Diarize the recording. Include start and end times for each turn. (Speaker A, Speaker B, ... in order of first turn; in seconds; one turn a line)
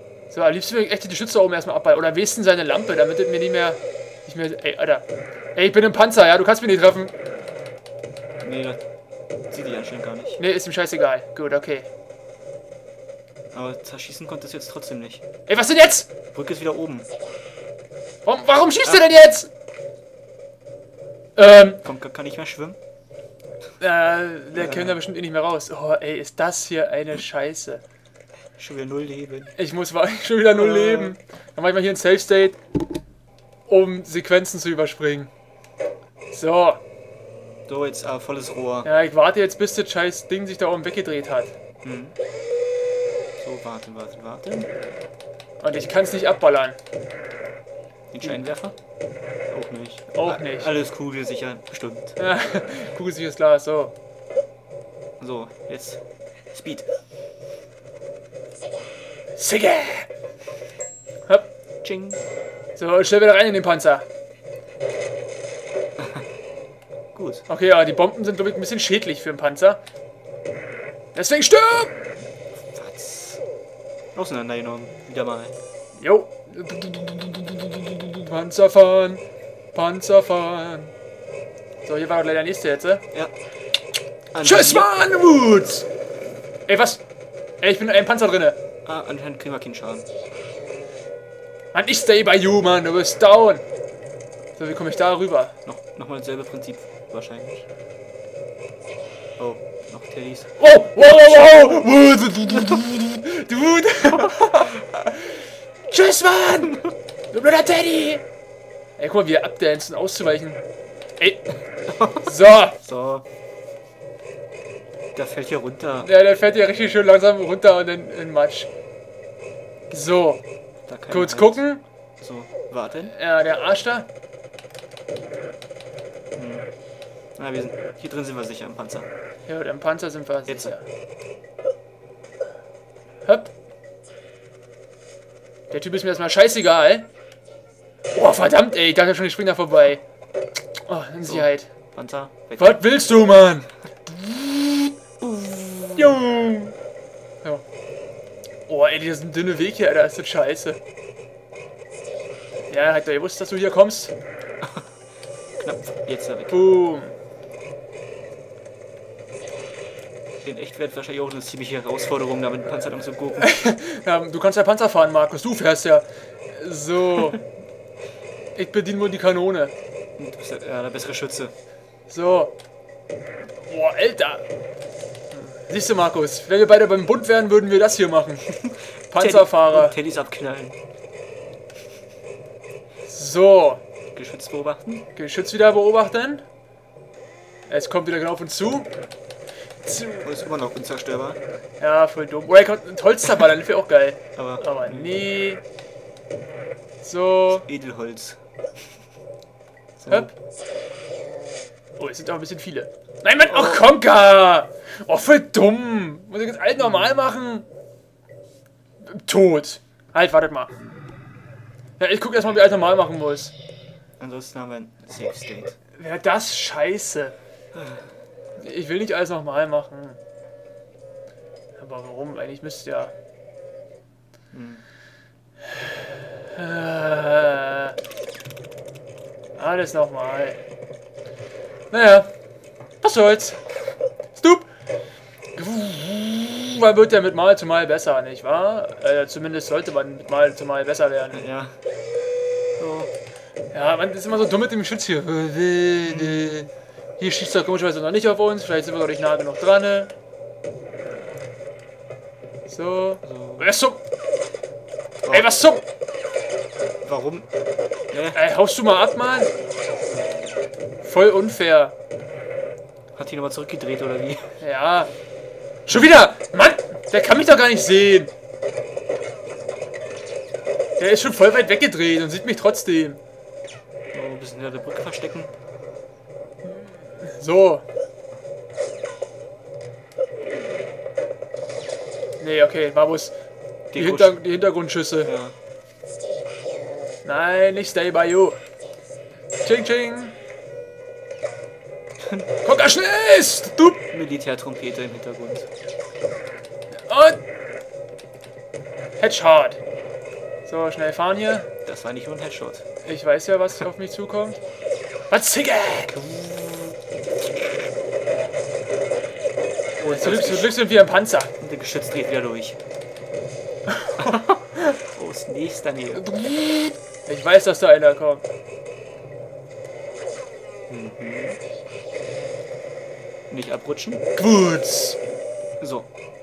Speaker A: 0.3-7.1
Speaker B: 8.4-8.8
Speaker B: 9.5-10.4
Speaker A: 10.4-11.9
Speaker B: 13.5-15.2
Speaker A: 15.5-16.1
Speaker B: 16.3-17.1
Speaker A: 18.2-19.5
Speaker A: 21.4-21.8
Speaker B: 21.8-22.8
Speaker A: 23.8-27.8
Speaker B: 24.5-25.0
Speaker B: 28.6-29.5
Speaker A: 29.6-32.6
Speaker B: 30.5-31.1
Speaker A: 33.7-35.3
Speaker A: 36.3-36.8
Speaker B: 37.7-38.9
Speaker A: 38.8-41.5
Speaker B: 41.8-42.1
Speaker B: 43.4-44.7
Speaker A: 45.6-46.8
Speaker B: 48.1-48.7
Speaker B: 49.5-52.1
Speaker A: 50.1-50.7
Speaker A: 52.2-53.9
Speaker B: 55.2-56.0
Speaker B: 56.5-56.9
Speaker A: 59.4-60.1
Speaker B: 61.8-62.2
Speaker A: 62.8-64.0
Speaker B: 67.1-67.4
Speaker A: 67.5-69.8
Speaker A: 71.1-72.0
Speaker B: 72.7-73.4
Speaker B: 74.1-75.5
Speaker A: 76.0-79.2
Speaker A: 79.7-80.9
Speaker A: 81.8-83.0
Speaker B: 84.3-84.9
Speaker A: 84.4-85.8
Speaker A: 86.7-87.0
Speaker A: 87.6-88.6
Speaker B: 88.8-90.0
Speaker A: 91.7-93.6
Speaker A: 94.6-95.5
Speaker B: 95.6-97.6
Speaker B: 99.4-100.5
Speaker A: 100.6-108.2
Speaker A: 109.0-110.6
Speaker A: 111.2-111.5
Speaker B: 111.9-113.2
Speaker A: 112.2-112.8
Speaker B: 115.1-116.1
Speaker A: 116.0-118.7
Speaker A: 119.9-120.4
Speaker B: 120.9-121.6
Speaker A: 121.1-121.8
Speaker B: 122.2-123.1
Speaker A: 123.0-124.1
Speaker B: 126.3-126.7
Speaker B: 127.4-129.1
Speaker A: 129.4-130.8
Speaker B: 130.5-130.7
Speaker A: 133.2-133.5
Speaker A: 135.7-137.1
Speaker A: 138.1-140.0
Speaker A: 140.9-141.7
Speaker B: 141.2-142.8
Speaker A: 142.6-144.9
Speaker B: 145.2-146.2
Speaker A: 145.9-146.7
Speaker A: 148.7-150.8
Speaker A: 152.7-154.1
Speaker B: 155.6-156.6
Speaker A: 156.5-157.2
Speaker B: 160.4-163.5
Speaker A: 163.4-167.4
Speaker A: 168.6-169.7
Speaker B: 170.2-171.5
Speaker A: 172.1-172.5
Speaker A: 173.6-174.4
Speaker A: 175.3-178.4
Speaker B: 178.5-180.8
Speaker A: 179.1-180.0
Speaker A: 183.1-183.8
Speaker B: 184.1-185.1
Speaker A: 185.1-186.4
Speaker A: 187.7-188.9
Speaker A: 189.8-190.3
Speaker B: 190.2-191.4
Speaker A: 191.8-195.6
Speaker B: 194.3-195.2
Speaker A: 197.0-197.7
Speaker B: 197.5-198.4
Speaker B: 200.0-200.3
Speaker A: 202.0-207.7
Speaker B: 203.4-203.9
Speaker A: 209.0-210.7
Speaker A: 212.0-213.5
Speaker B: 214.2-215.8
Speaker A: 216.0-217.3
Speaker B: 217.7-218.1
Speaker A: 218.6-220.2
Speaker A: 221.8-223.1
Speaker B: 224.5-224.8
Speaker A: 225.7-228.0
Speaker A: 229.6-230.6
Speaker A: 231.9-232.3
Speaker A: 233.0-233.6
Speaker A: 234.4-234.7
Speaker A: 235.6-241.4
Speaker B: 241.3-241.8
Speaker B: 242.8-243.1
Speaker A: 243.7-250.1
Speaker B: 246.0-246.7
Speaker A: 252.7-254.0
Speaker B: 253.2-253.7
Speaker B: 255.2-255.5
Speaker A: 255.3-255.8
Speaker B: 257.0-257.5
Speaker B: 258.1-258.4
Speaker A: 258.3-259.5
Speaker A: 261.0-261.9
Speaker B: 263.1-264.6
Speaker A: 264.6-265.1
Speaker A: 265.9-268.3
Speaker A: 271.0-273.2
Speaker B: 274.1-275.5
Speaker A: 276.6-277.8
Speaker A: 282.4-283.3
Speaker B: 283.9-284.4
Speaker A: 283.9-285.3
Speaker B: 285.2-285.5
Speaker A: 287.2-288.6
Speaker A: 289.6-290.3
Speaker B: 292.2-292.5
Speaker A: 292.6-294.0
Speaker B: 294.1-295.7
Speaker A: 297.1-297.4
Speaker A: 299.2-299.8
Speaker A: 300.6-301.7
Speaker B: 301.9-302.8
Speaker A: 303.0-304.6
Speaker A: 305.3-306.1
Speaker B: 306.1-306.9
Speaker B: 310.0-310.8
Speaker A: 310.1-311.5
Speaker B: 311.6-312.8
Speaker A: 314.0-314.3
Speaker B: 314.2-316.3
Speaker A: 316.1-318.4
Speaker B: 320.9-321.6
Speaker B: 323.5-324.2
Speaker A: 324.4-325.2
Speaker B: 325.8-326.1